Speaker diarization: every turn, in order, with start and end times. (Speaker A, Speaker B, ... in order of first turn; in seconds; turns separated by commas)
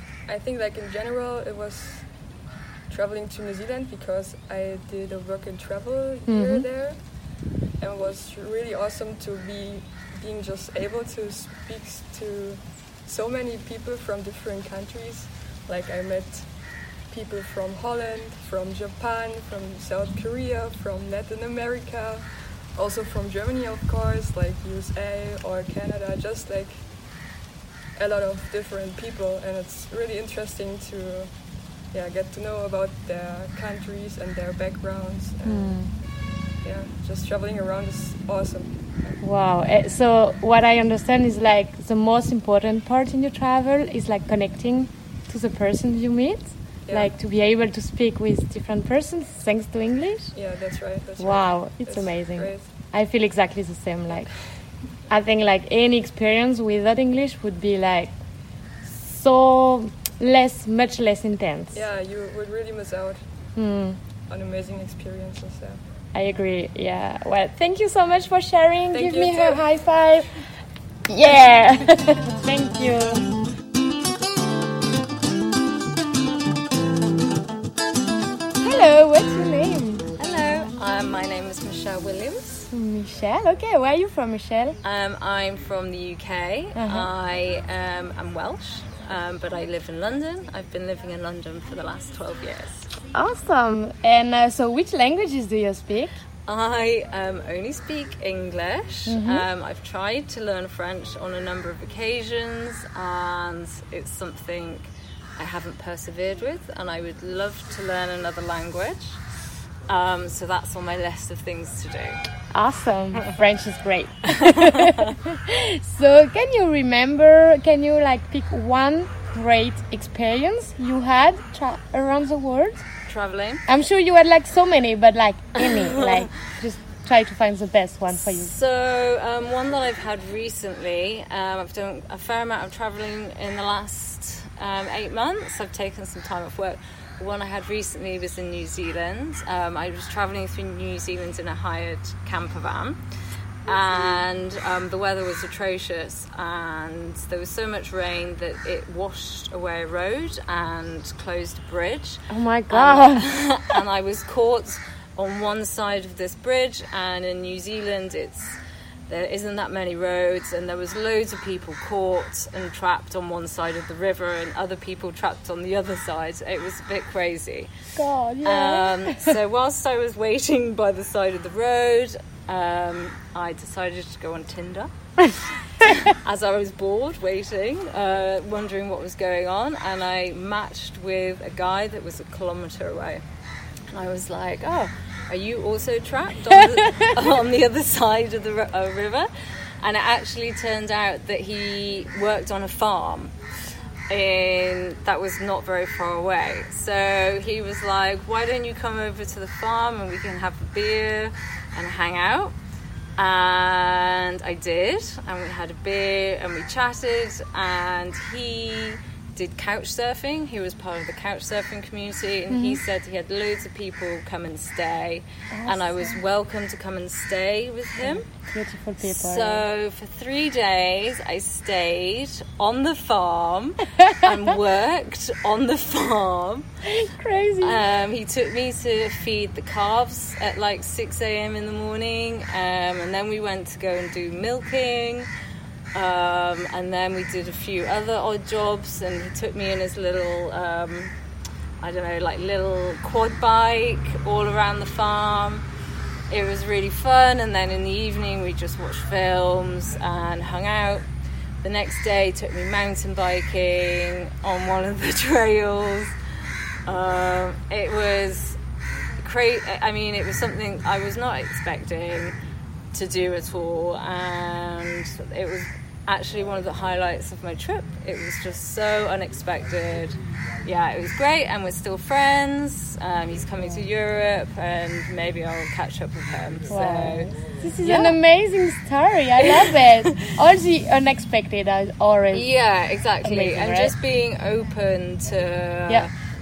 Speaker A: 0.3-27.1, Speaker B: 6.3-6.7, Speaker A: 28.0-35.9, Speaker B: 35.4-35.9, Speaker A: 36.6-39.2, Speaker B: 39.2-50.3, Speaker A: 46.9-47.2, Speaker A: 50.4-52.8, Speaker B: 51.2-58.1, Speaker A: 54.1-55.0, Speaker B: 58.9-61.8, Speaker A: 61.7-63.3, Speaker B: 63.5-64.0, Speaker A: 64.3-65.8, Speaker B: 66.1-70.4, Speaker A: 68.9-69.7, Speaker B: 71.1-73.2, Speaker B: 78.6-80.1, Speaker C: 80.2-82.7, Speaker B: 82.7-84.8, Speaker C: 84.8-92.9, Speaker B: 86.8-87.1, Speaker B: 93.1-96.2, Speaker C: 96.5-109.2, Speaker B: 99.1-99.5, Speaker C: 109.9-112.2, Speaker B: 112.5-122.8, Speaker C: 123.1-123.6, Speaker B: 123.7-128.5, Speaker C: 125.6-126.5, Speaker C: 128.1-143.0, Speaker C: 143.7-167.7, Speaker B: 152.3-153.3, Speaker B: 168.0-169.3, Speaker C: 168.4-174.9, Speaker C: 175.8-183.2, Speaker C: 183.9-189.3, Speaker C: 189.8-193.3, Speaker C: 194.1-202.6, Speaker C: 203.2-218.3, Speaker B: 212.5-212.8, Speaker B: 215.5-216.2, Speaker B: 218.0-219.6, Speaker C: 219.0-226.7, Speaker B: 226.9-227.8, Speaker C: 227.6-235.3, Speaker C: 235.9-241.1, Speaker C: 241.8-245.6, Speaker C: 246.3-251.0, Speaker C: 251.6-256.1, Speaker C: 256.9-258.6, Speaker C: 259.2-262.4, Speaker C: 262.9-278.2, Speaker B: 276.7-282.5, Speaker C: 282.3-286.1, Speaker B: 283.2-283.9